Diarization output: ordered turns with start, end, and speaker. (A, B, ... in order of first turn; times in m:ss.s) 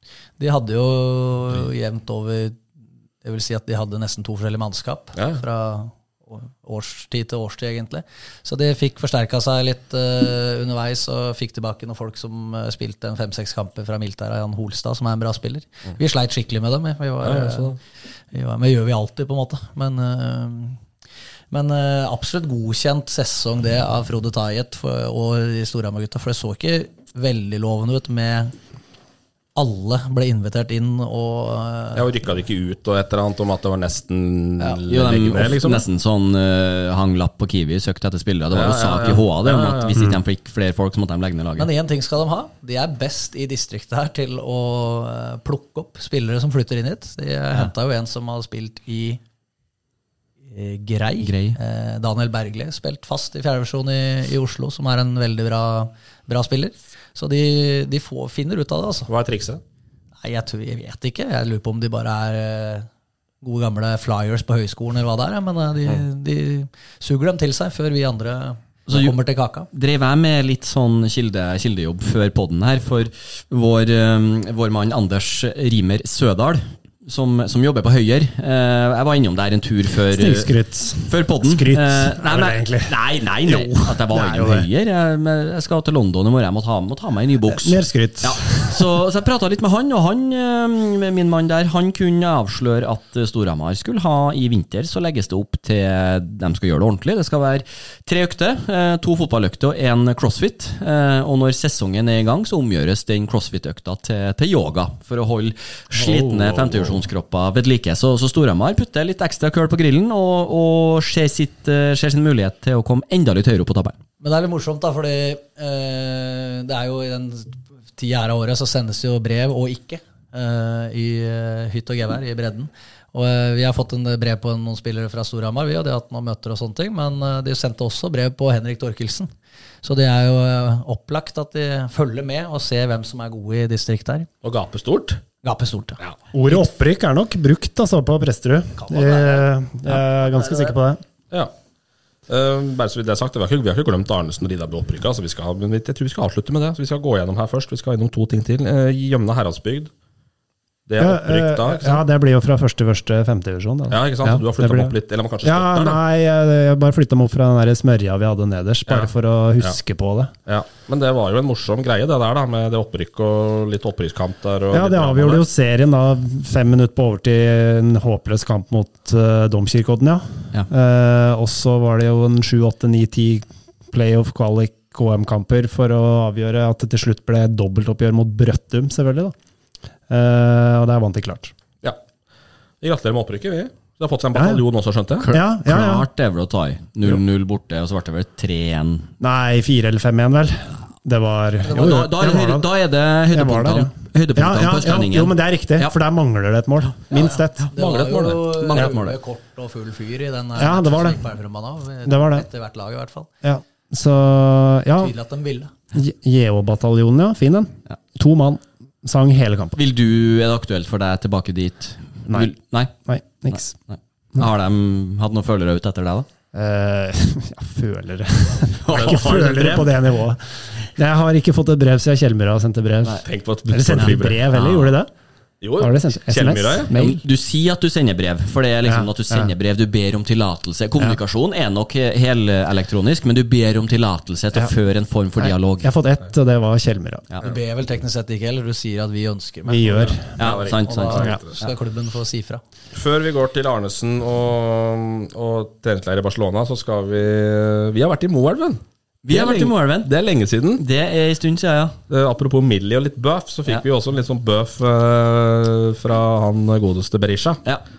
0:00.4-0:02.6 A
0:03.2-0:17.7 A
0:05.2-0:05.4 B
0:17.2-0:17.8 B
0:18.3-0:20.8 A
0:21.5-0:28.5 A
0:29.5-0:32.1 A
0:31.9-0:35.8 B
0:34.8-0:41.7 C
0:38.5-0:40.0 B
0:41.6-0:49.2 A
0:50.5-0:59.1 A
0:51.2-0:51.6 C
0:59.1-0:59.6 B
1:00.2-1:02.9 A
1:03.4-1:09.7 A
1:08.9-1:09.2 C
1:09.7-1:54.0 C
1:20.1-1:24.7 D
1:27.5-1:29.0 D
1:45.9-1:47.0 B
1:54.2-2:09.3 A
2:09.8-2:14.3 A
2:14.4-2:15.2 B
2:15.4-2:16.6 A
2:16.3-2:21.0 D
2:18.8-2:20.8 A
2:22.3-2:29.9 B
2:30.9-2:32.0 B
2:31.0-2:40.3 D
2:33.9-2:36.0 B
2:38.9-2:39.8 B
2:40.4-2:45.4 B
2:44.7-2:59.3 D
3:00.1-3:01.5 D
3:02.8-3:05.3 B
3:04.3-3:04.6 D
3:05.2-3:09.1 C
3:05.3-3:06.1 D
3:09.2-3:12.7 D
3:11.6-3:12.0 A
3:11.7-3:16.0 C
3:13.3-3:17.7 D
3:17.1-3:23.3 A
3:17.7-3:18.4 B
3:18.2-3:19.2 C
3:20.6-3:21.2 D
3:22.0-3:22.4 D
3:23.4-3:25.1 D
3:25.0-3:25.7 A
3:25.9-3:29.7 D
3:29.8-3:36.3 C
3:32.3-3:33.8 D
3:36.5-3:45.1 D
3:38.8-3:40.1 C
3:38.9-3:39.8 B
3:43.2-3:44.4 B
3:43.9-3:45.0 C
3:45.6-3:46.9 B
3:45.8-3:47.2 D
3:46.9-3:56.0 C
3:48.8-3:49.5 D
3:55.4-3:57.2 D
3:57.4-4:02.6 A
3:59.6-4:00.6 D
4:00.0-4:01.7 B
4:00.4-4:01.5 C
4:02.9-4:10.8 B
4:09.2-4:10.1 C
4:10.8-4:12.0 C
4:12.1-4:17.6 B